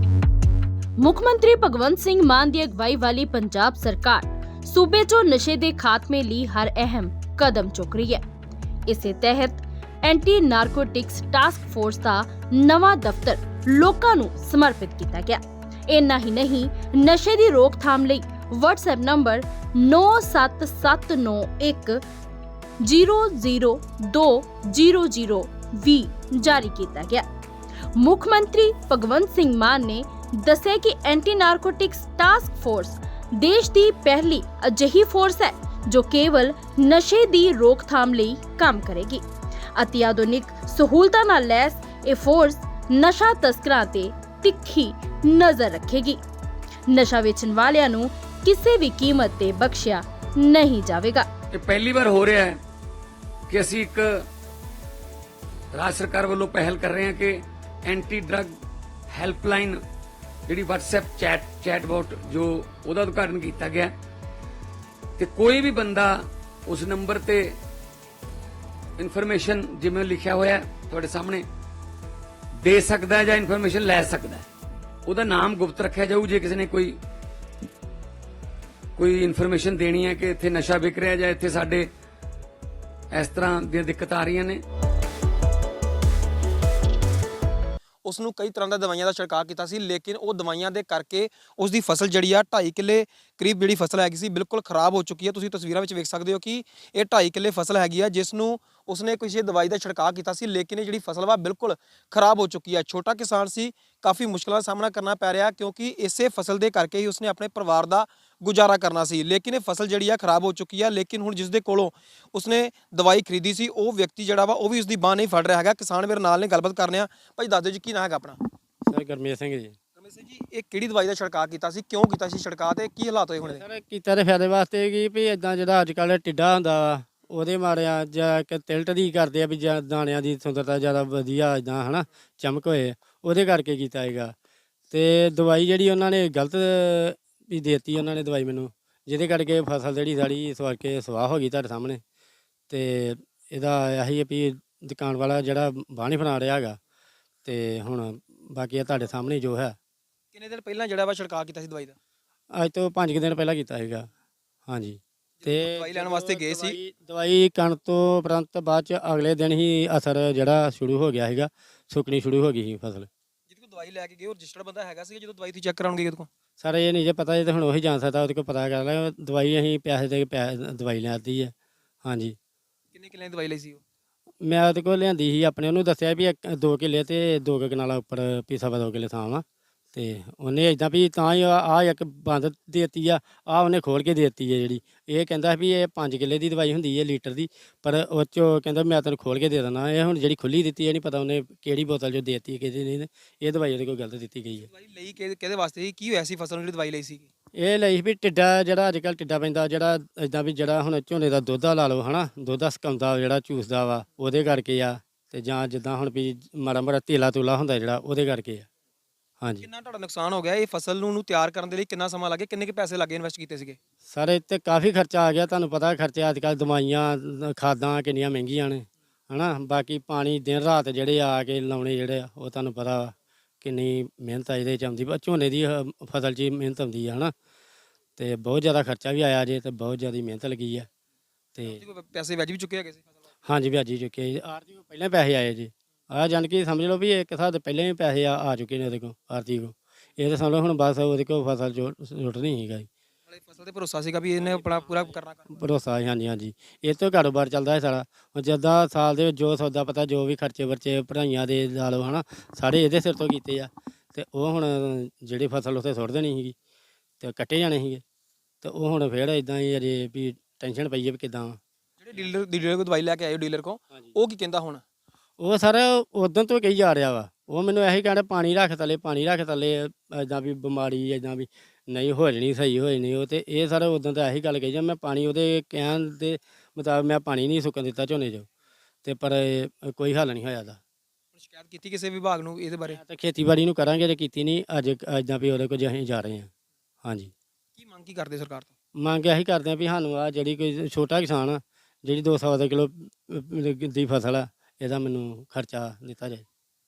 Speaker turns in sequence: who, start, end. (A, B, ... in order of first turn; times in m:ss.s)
0:01.0-0:08.2 A
0:08.9-0:22.0 A
0:22.8-0:27.2 A
0:28.0-0:39.2 A
0:39.8-0:46.2 A
0:46.9-0:51.3 A
0:51.5-0:52.6 B
0:53.5-0:54.2 B
0:55.7-0:58.5 B
0:59.1-0:59.8 B
1:00.5-1:03.9 B
1:05.2-1:07.6 B
1:09.0-1:11.4 B
1:12.6-1:14.5 B
1:15.0-1:17.0 B
1:19.0-1:21.9 B
1:23.1-1:24.6 B
1:28.0-1:58.4 C
1:58.8-1:59.8 D
2:00.0-2:03.6 C
2:03.4-2:14.3 D
2:14.9-2:22.0 D
2:22.7-2:26.8 D
2:27.4-2:29.8 D
2:30.3-2:32.0 C
2:32.5-2:34.1 D
2:34.7-2:43.1 D
2:35.4-2:36.8 C
2:43.5-2:46.3 C
2:46.6-2:52.4 D
2:52.9-2:53.8 C
2:54.4-3:14.7 D
3:14.7-3:17.3 C
3:17.6-3:28.7 D
3:29.4-3:29.6 D
3:29.6-3:33.8 C
3:34.1-3:47.3 D
3:48.2-3:50.9 D
3:51.5-3:51.8 D
3:51.6-3:53.1 C
3:53.4-4:02.9 D
4:03.3-4:05.5 C
4:05.5-4:16.5 D
4:17.2-4:18.0 D
4:18.6-4:21.6 D
4:22.0-4:24.8 C
4:25.4-4:38.5 D
4:39.0-4:40.8 D
4:41.3-4:43.0 C
4:42.8-4:46.5 D
4:47.0-4:47.3 D
4:47.8-4:48.7 C
4:49.0-4:56.4 D